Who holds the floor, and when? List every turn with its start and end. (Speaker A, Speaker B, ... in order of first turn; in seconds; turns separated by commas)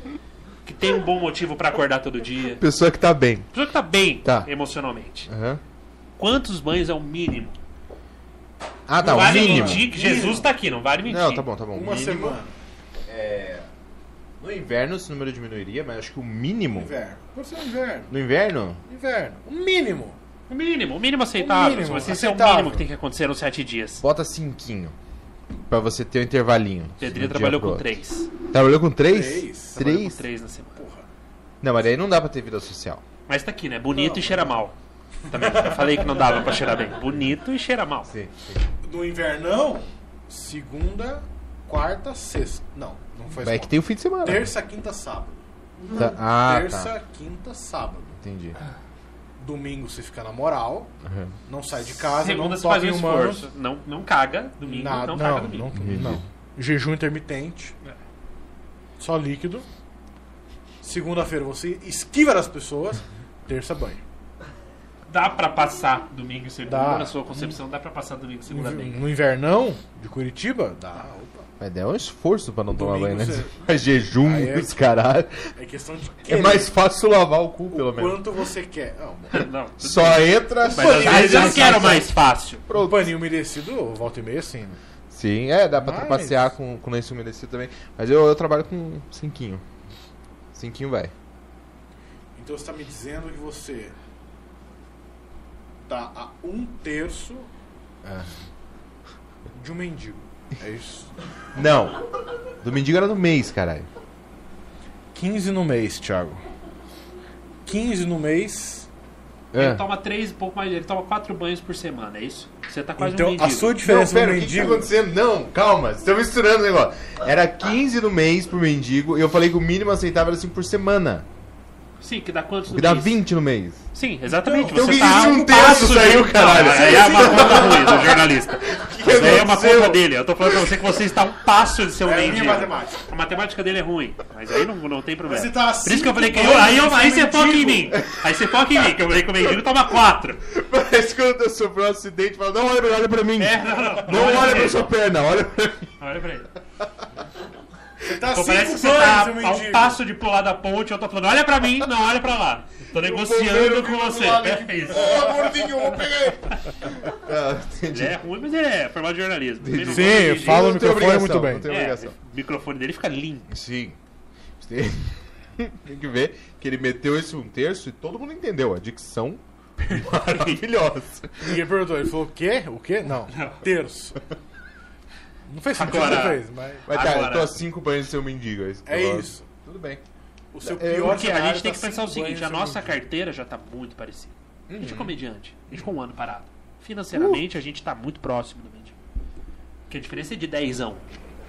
Speaker A: 0.6-2.6, Speaker B: 2.5-3.5, Speaker A: 3.5-5.3, Speaker B: 4.2-4.5, Speaker B: 5.3-5.6, Speaker A: 6.2-7.6, Speaker B: 8.9-9.9, Speaker A: 9.0-11.4, Speaker C: 9.1-10.5, Speaker B: 11.0-12.4, Speaker C: 11.7-12.5, Speaker B: 13.1-13.7, Speaker B: 14.4-16.9, Speaker C: 16.7-18.1, Speaker B: 18.1-18.8, Speaker C: 18.9-20.2, Speaker A: 20.5-24.0, Speaker C: 21.4-22.8, Speaker B: 24.0-24.9, Speaker B: 25.7-30.2, Speaker A: 27.0-28.3, Speaker C: 29.1-29.8, Speaker A: 29.7-30.8, Speaker C: 30.8-31.1, Speaker B: 31.6-33.0, Speaker A: 33.3-34.7, Speaker C: 33.9-34.6, Speaker A: 35.3-38.1, Speaker C: 35.3-36.0, Speaker B: 38.0-38.6, Speaker C: 38.8-45.4, Speaker B: 43.4-44.5, Speaker B: 45.9-46.9, Speaker C: 46.0-48.2, Speaker B: 48.2-48.6, Speaker C: 49.4-50.9, Speaker B: 51.0-51.3, Speaker C: 51.5-53.5, Speaker A: 51.9-56.0, Speaker C: 54.6-57.7, Speaker B: 55.8-56.2, Speaker C: 59.0-59.6, Speaker C: 60.8-64.0, Speaker A: 65.1-69.1, Speaker C: 66.7-67.6, Speaker C: 68.5-71.5, Speaker B: 71.6-75.5, Speaker C: 72.7-73.5, Speaker C: 74.2-74.8, Speaker C: 75.5-76.7, Speaker B: 76.3-78.2, Speaker C: 77.7-79.4, Speaker A: 79.3-82.6, Speaker B: 79.8-82.1, Speaker C: 80.7-82.0, Speaker B: 82.7-83.1, Speaker C: 82.7-84.8, Speaker B: 85.1-89.6, Speaker C: 85.8-86.5, Speaker B: 90.5-91.1, Speaker C: 92.3-93.9, Speaker C: 95.9-97.5, Speaker B: 98.0-98.4, Speaker C: 99.5-101.1, Speaker B: 101.5-102.0, Speaker B: 102.6-103.9, Speaker C: 105.1-106.4, Speaker C: 107.7-108.9, Speaker B: 109.5-109.8, Speaker A: 109.5-113.8, Speaker C: 113.0-114.9, Speaker B: 113.8-121.2, Speaker A: 122.0-123.2, Speaker B: 122.7-123.8, Speaker A: 123.9-140.4, Speaker C: 124.3-125.6, Speaker B: 124.7-130.7, Speaker C: 126.6-128.1, Speaker C: 129.2-129.5, Speaker C: 132.0-133.0, Speaker C: 135.2-137.9, Speaker B: 140.4-145.9, Speaker A: 143.4-144.8, Speaker A: 146.0-146.5, Speaker C: 148.0-150.0, Speaker A: 148.3-155.4, Speaker B: 152.9-158.2, Speaker A: 157.9-160.8, Speaker B: 159.6-162.1, Speaker C: 159.8-161.7, Speaker A: 161.7-163.5, Speaker B: 163.5-164.0, Speaker B: 164.6-171.6, Speaker A: 169.9-170.6, Speaker C: 171.4-174.2, Speaker A: 173.3-173.6, Speaker C: 175.5-176.8, Speaker A: 175.8-177.5, Speaker B: 176.8-180.0, Speaker C: 178.8-179.4, Speaker C: 180.5-182.9, Speaker B: 180.6-181.2, Speaker A: 181.0-188.9, Speaker C: 184.7-185.1, Speaker B: 187.1-187.4, Speaker A: 189.9-191.1